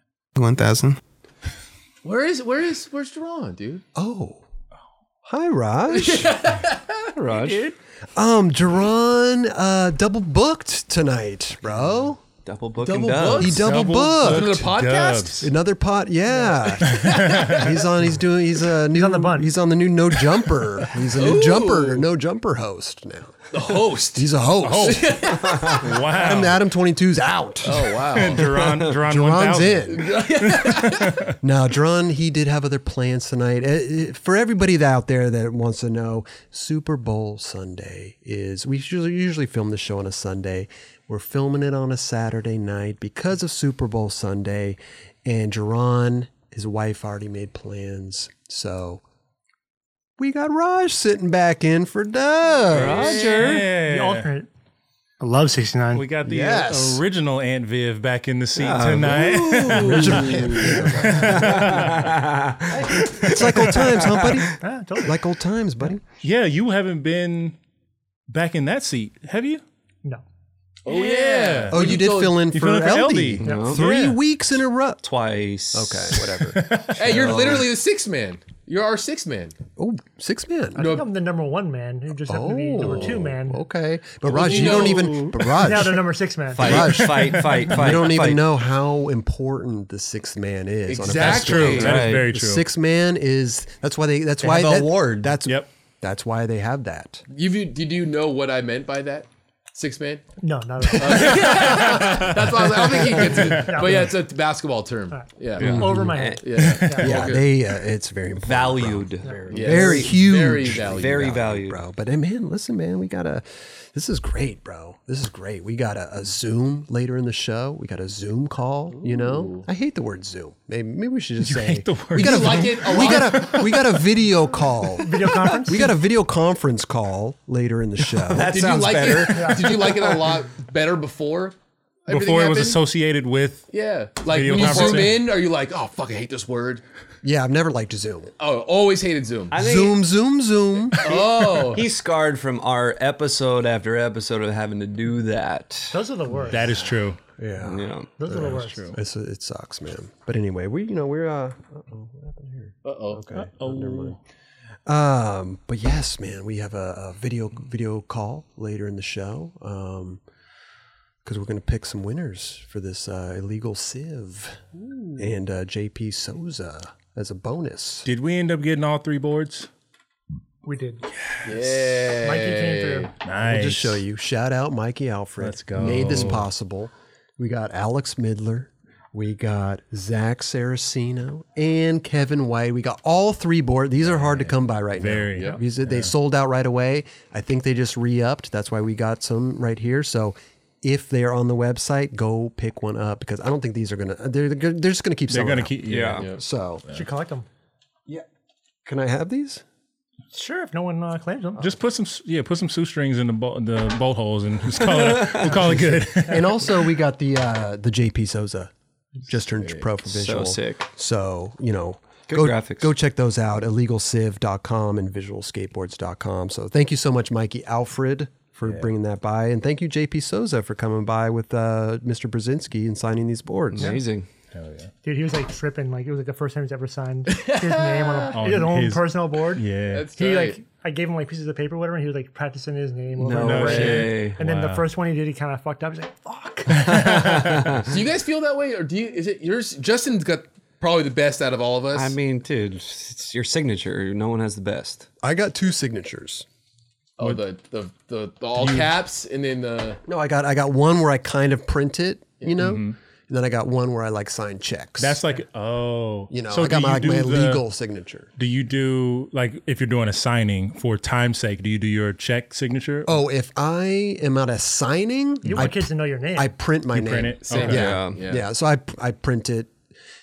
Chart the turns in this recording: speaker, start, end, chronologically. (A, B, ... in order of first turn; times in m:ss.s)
0:00.4-0:01.0 A
0:02.0-0:03.8 B
0:03.9-0:04.4 A
0:05.2-0:06.4 A
0:05.9-0:07.7 B
0:07.1-0:07.7 C
0:08.1-0:12.2 A
0:12.4-0:13.6 C
0:12.8-0:13.6 B
0:13.4-0:14.7 A
0:13.4-0:15.5 D
0:14.2-0:15.5 B
0:15.4-0:30.7 A
0:16.8-0:17.7 B
0:16.8-0:17.7 D
0:18.9-0:19.5 E
0:21.1-0:22.1 B
0:23.5-0:25.8 B
0:24.6-0:26.6 D
0:27.6-0:28.5 B
0:28.1-0:31.3 D
0:29.9-0:31.2 B
0:31.4-0:49.0 A
0:50.2-0:53.2 A
0:52.7-0:54.3 D
0:52.7-0:53.6 C
0:52.9-0:53.6 B
0:53.8-0:54.5 E
0:55.2-0:56.0 E
0:55.9-1:02.1 D
0:56.2-0:57.0 A
0:58.5-1:04.4 C
0:59.8-1:01.6 A
1:02.7-1:06.1 A
1:04.6-1:05.2 E
1:06.2-1:07.6 D
1:08.3-1:09.6 D
1:10.8-1:12.4 B
1:10.9-1:14.2 D
1:11.7-1:15.0 A
1:13.4-1:13.8 C
1:13.4-1:13.7 E
1:15.0-1:16.4 C
1:15.7-1:17.6 A
1:16.5-1:17.3 D
1:17.0-1:19.5 B
1:17.1-1:17.6 C
1:19.8-1:20.8 A
1:20.8-1:23.6 E
1:20.8-1:21.0 B
1:22.3-1:26.0 A
1:22.8-1:23.2 B
1:24.2-1:25.3 B
1:24.4-1:25.3 D
1:25.5-1:26.8 E
1:26.5-1:28.4 C
1:26.6-1:37.2 A
1:26.6-1:27.9 D
1:30.9-1:32.1 B
1:31.1-1:32.6 D
1:31.6-1:32.3 C
1:34.4-1:35.4 C
1:37.3-1:40.2 B
1:40.4-1:41.6 E
1:41.0-1:47.4 B
1:41.4-1:42.4 D
1:42.8-1:43.4 A
1:43.0-1:43.8 D
1:43.6-1:44.1 E
1:45.1-1:47.0 E
1:45.6-1:46.7 C
1:45.6-1:45.9 D
1:45.6-1:46.1 A
1:46.6-1:47.1 D
1:47.0-2:08.6 A
1:48.4-1:51.8 C
1:49.5-1:51.4 B
1:59.1-1:59.6 B
2:01.4-2:03.5 D
2:02.1-2:03.8 B
2:05.0-2:06.0 E
2:08.2-2:10.3 C
2:08.3-2:11.5 B
2:09.3-2:09.7 E
2:12.1-2:12.8 B
2:12.1-2:13.7 D
2:13.7-2:16.8 B
2:14.3-2:15.3 D
2:17.2-2:18.3 A
2:18.4-2:19.5 B
2:19.5-2:20.0 C
2:19.5-2:21.1 A
2:21.0-2:26.0 C
2:21.0-2:21.8 B
2:25.9-2:26.7 E
2:26.5-2:27.2 D
2:26.5-2:34.2 A
2:27.6-2:28.1 C
2:28.2-2:29.0 E
2:28.6-2:29.0 D
2:32.8-2:33.2 B
2:33.3-2:34.2 D
2:34.8-2:40.2 A
2:41.2-2:44.6 A
2:45.2-2:48.1 A
2:48.0-2:49.7 D
2:50.6-2:51.0 E
2:51.4-2:53.1 B
2:52.1-2:53.1 E
2:53.2-2:54.0 D
2:53.4-3:16.8 A
2:55.4-2:56.5 D
3:05.0-3:06.1 D
3:15.3-3:16.3 D
3:15.8-3:16.3 C
3:16.9-3:17.4 E
3:18.8-3:19.6 A
3:20.3-3:21.7 E
3:21.6-3:26.6 D
3:24.9-3:25.6 C
3:26.2-3:28.7 A
3:29.2-3:44.0 A
3:30.0-3:30.9 C
3:32.3-3:32.9 C
3:43.7-3:44.3 C
3:44.5-3:44.9 D
3:45.0-3:56.9 E
3:47.3-3:48.4 B
3:48.3-3:50.1 D
3:49.9-3:50.6 B
3:53.2-3:54.4 C
3:53.4-3:54.8 D
3:56.7-3:57.8 D
3:56.9-3:57.9 C
3:57.8-4:02.2 B
4:01.9-4:05.1 C
4:05.2-4:06.4 A
4:07.2-4:10.0 B
4:08.6-4:08.9 D
4:10.0-4:15.2 A
4:12.6-4:13.0 D
4:15.0-4:17.6 D
4:16.3-4:18.3 A
4:18.4-4:23.1 D
4:23.0-4:29.7 A
4:25.4-4:26.5 E
4:25.5-4:25.7 D
4:26.9-4:27.8 D
4:27.4-4:28.4 B
4:27.6-4:28.2 C